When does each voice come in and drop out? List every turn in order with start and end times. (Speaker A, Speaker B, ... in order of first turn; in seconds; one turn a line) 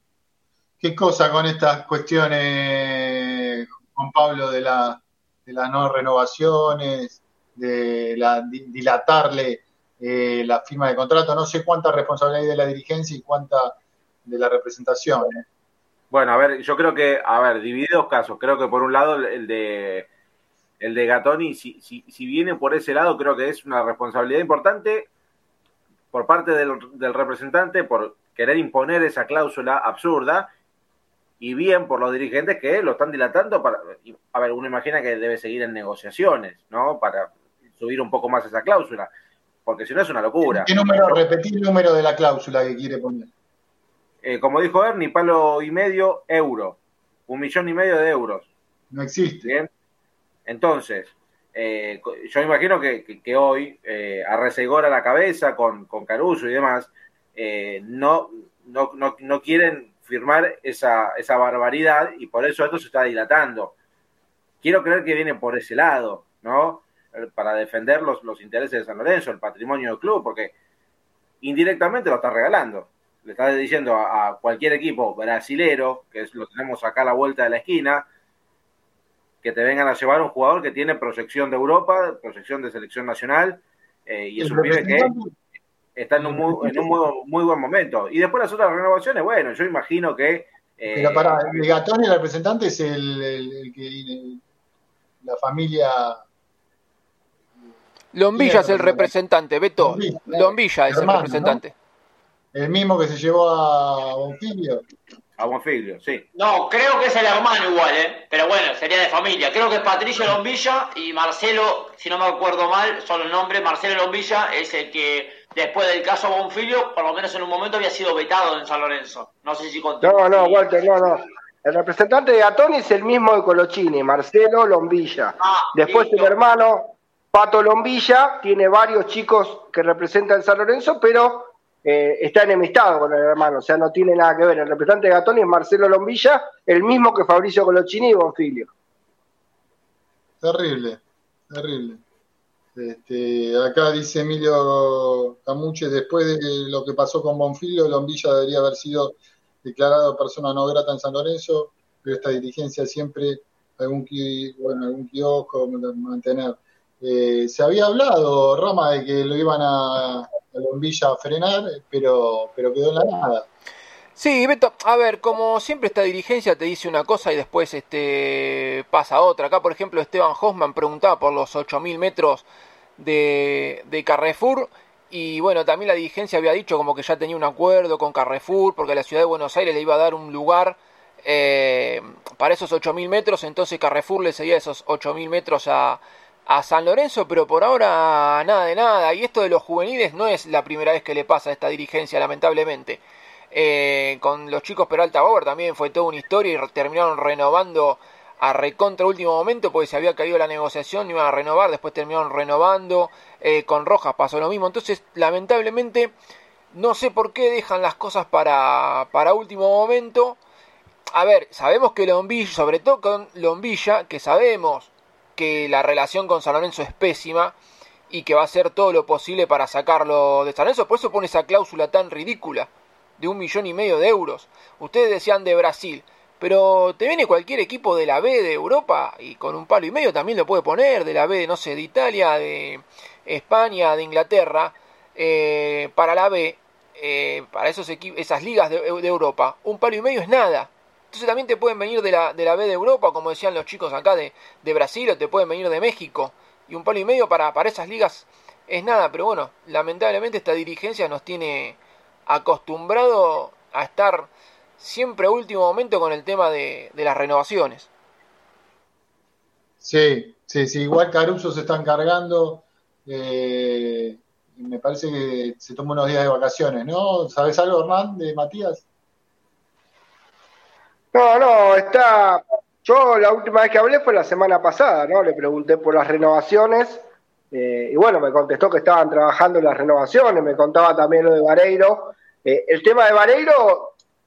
Speaker A: 0.8-15.4
Speaker B: 16.1-20.1
Speaker B: 20.8-25.1
Speaker B: 26.1-30.5
Speaker B: 31.4-39.1
Speaker B: 39.7-41.2
Speaker A: 40.5-43.3
Speaker B: 44.2-48.5
Speaker A: 48.9-49.5
Speaker B: 50.5-63.7
Speaker B: 64.6-70.5
Speaker B: 71.4-78.1
Speaker B: 79.4-85.1
Speaker A: 84.4-85.3
Speaker B: 86.0-91.4
Speaker A: 86.2-87.0
Speaker A: 90.9-94.4
Speaker A: 95.2-96.2
Speaker C: 98.1-101.7
Speaker A: 98.3-99.1
Speaker A: 99.8-101.6
Speaker A: 102.5-104.8
Speaker B: 105.4-106.2
Speaker D: 106.3-120.7
Speaker E: 120.0-138.7
Speaker D: 125.4-126.3
Speaker A: 140.4-142.0
Speaker A: 142.8-163.5
Speaker C: 164.2-172.4
Speaker C: 173.0-193.0
Speaker C: 193.5-206.1
Speaker C: 206.7-210.4
Speaker C: 211.1-217.6
Speaker C: 218.1-254.3
Speaker C: 254.8-257.9
Speaker A: 259.8-268.9
Speaker E: 271.1-284.0